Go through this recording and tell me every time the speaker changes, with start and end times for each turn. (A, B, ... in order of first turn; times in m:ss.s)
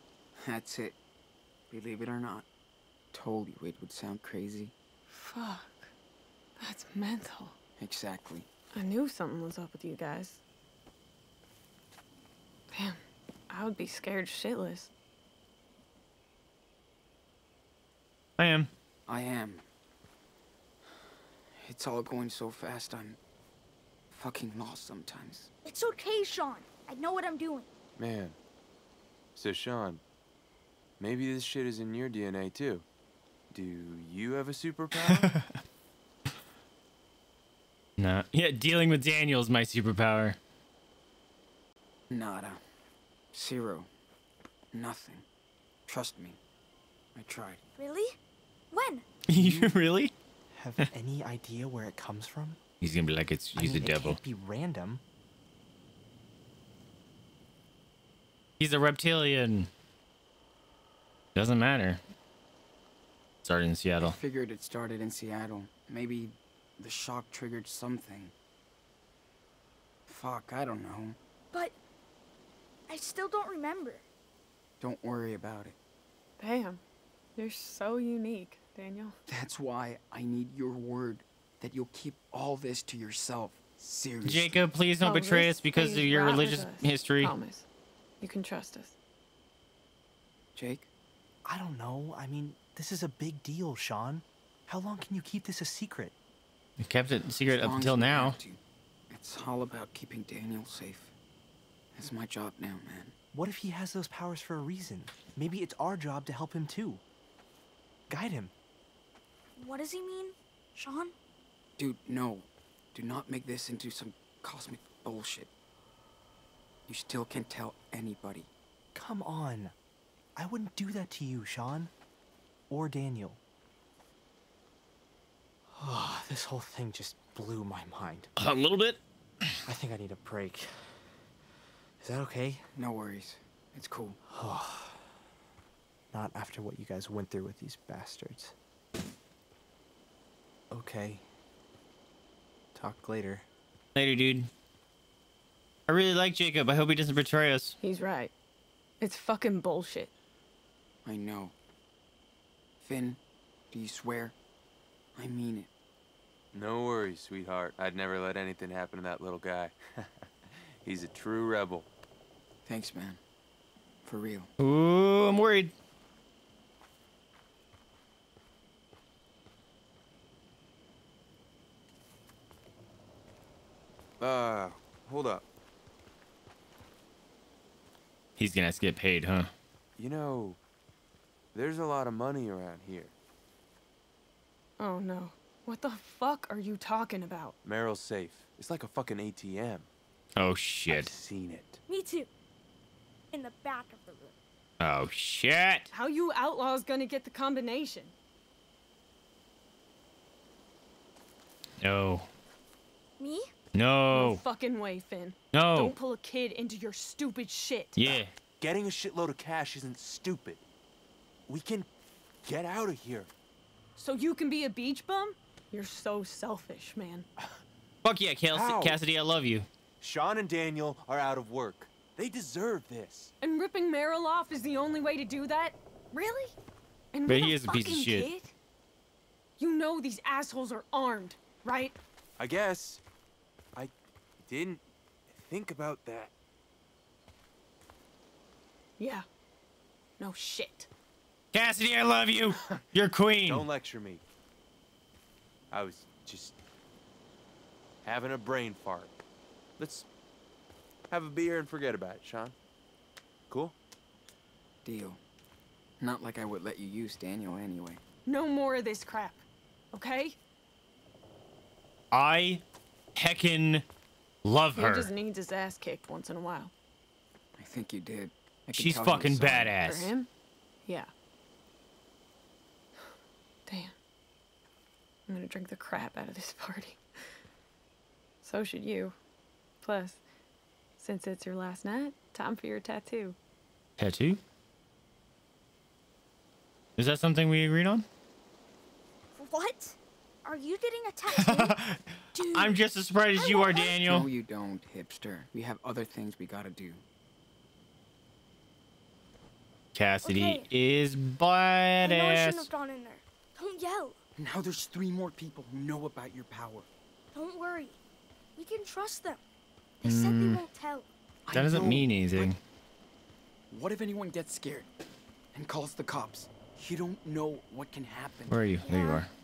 0:00.4-0:01.0 A
0:01.7-0:02.5 A
0:03.1-0:04.7 A
0:05.1-0:05.9 B
0:06.6-0:07.6 B
0:07.8-0:08.5 A
0:08.7-0:10.4 B
0:12.7-0:13.0 B
0:13.5-0:14.9 B
0:18.4-0:18.7 C
0:19.1-0:19.6 A
0:21.6-0:23.2 A
0:24.1-0:25.5 A
0:25.6-0:27.7 D
0:28.0-0:28.4 E
0:29.4-0:30.0 E
0:31.0-0:32.9 E
0:33.5-0:35.3 E
0:35.1-0:35.4 C
0:38.0-0:40.4 C
0:42.1-0:42.6 A
0:43.3-0:43.9 A
0:44.7-0:45.2 A
0:45.9-0:46.4 A
0:47.2-0:47.6 A
0:47.8-0:48.2 D
0:48.7-0:49.0 D
0:49.3-0:50.1 C
0:49.3-0:49.9 F
0:50.5-0:52.6 F
0:52.8-0:54.2 C
0:53.6-0:55.0 F
0:58.6-0:59.7 C
1:01.4-1:02.0 C
1:03.4-1:04.2 C
1:04.0-1:08.3 A
1:10.1-1:11.2 A
1:12.9-1:14.0 D
1:14.8-1:15.8 A
1:16.4-1:16.8 B
1:17.4-1:19.2 B
1:19.3-1:24.7 A
1:24.2-1:27.3 C
1:25.0-1:27.6 B
1:28.2-1:28.9 B
1:30.6-1:30.9 A
1:31.4-1:36.1 F
1:36.8-1:38.4 C
1:37.5-1:41.2 A
1:42.0-1:43.2 A
1:43.3-1:47.0 F
1:48.1-1:48.5 F
1:49.6-1:51.1 D
1:51.8-1:55.5 A
1:56.9-1:58.5 A
1:58.9-1:59.7 F
2:00.4-2:01.9 F
2:02.7-2:03.4 F
2:05.7-2:08.3 F
2:08.4-2:09.0 C
2:09.6-2:11.1 F
2:12.0-2:12.7 F
2:12.8-2:14.2 A
2:14.3-2:15.2 F
2:16.1-2:18.6 F
2:20.7-2:21.2 F
2:22.8-2:23.4 F
2:24.0-2:24.5 C
2:25.9-2:27.8 C
2:27.8-2:28.3 B
2:29.0-2:30.1 B
2:31.0-2:31.6 A
2:32.8-2:33.2 A
2:33.7-2:34.4 A
2:35.2-2:35.7 A
2:36.5-2:40.1 E
2:40.8-2:41.9 E
2:42.6-2:43.2 A
2:44.0-2:44.5 A
2:44.6-2:45.7 C
2:54.2-2:55.4 E
2:58.4-2:59.5 C
3:00.0-3:00.6 E
3:01.5-3:03.1 E
3:04.8-3:07.6 B
3:07.6-3:09.9 E
3:10.4-3:11.1 C
3:10.9-3:11.8 E
3:11.9-3:12.3 D
3:13.3-3:14.3 D
3:14.8-3:15.9 C
3:15.9-3:18.1 B
3:21.8-3:22.3 C
3:23.2-3:23.5 D
3:23.8-3:24.4 C
3:24.1-3:28.0 B
3:25.5-3:25.9 C
3:28.0-3:28.3 C
3:28.1-3:30.6 E
3:31.5-3:31.9 E
3:32.4-3:33.3 E
3:34.0-3:37.3 B
3:38.0-3:39.7 C
3:38.5-3:39.0 E
3:40.0-3:43.3 E
3:43.4-3:46.6 B
3:47.1-3:48.5 B
3:47.3-3:48.3 C
3:49.6-3:52.0 B
3:52.4-3:53.0 E
3:53.8-3:56.3 E
3:59.0-3:59.2 B
4:00.2-4:00.9 B
4:01.5-4:03.7 C
4:03.4-4:04.2 E
4:05.7-4:06.6 E
4:08.0-4:09.2 E
4:09.8-4:10.1 E
4:11.1-4:12.6 E
4:13.5-4:13.8 E
4:14.8-4:15.2 A
4:16.0-4:18.0 A
4:18.3-4:20.4 B
4:22.1-4:22.6 C
4:23.2-4:23.8 C
4:24.4-4:25.1 C
4:24.8-4:26.7 B
4:27.6-4:29.8 A
4:28.7-4:30.1 C
4:29.8-4:30.3 B
4:30.9-4:31.1 B
4:33.7-4:33.9 B
4:35.3-4:37.0 B
4:38.4-4:39.2 B
4:39.8-4:40.2 B
4:41.0-4:43.4 B
4:44.0-4:44.4 C
4:47.0-4:48.0 C
4:49.4-4:51.8 D
4:51.4-4:54.3 C
4:52.3-4:52.8 D
4:53.3-4:54.0 D
4:54.0-4:57.0 A
4:59.9-5:02.7 C
5:00.2-5:00.7 D
5:02.0-5:04.2 D
5:04.4-5:06.9 A
5:07.3-5:08.0 D
5:08.6-5:09.4 D
5:10.0-5:11.1 D
5:10.0-5:10.6 C
5:11.5-5:12.5 A
5:11.5-5:12.6 C
5:13.7-5:14.9 A
5:15.5-5:18.7 A
5:18.5-5:19.3 C
5:18.8-5:19.3 D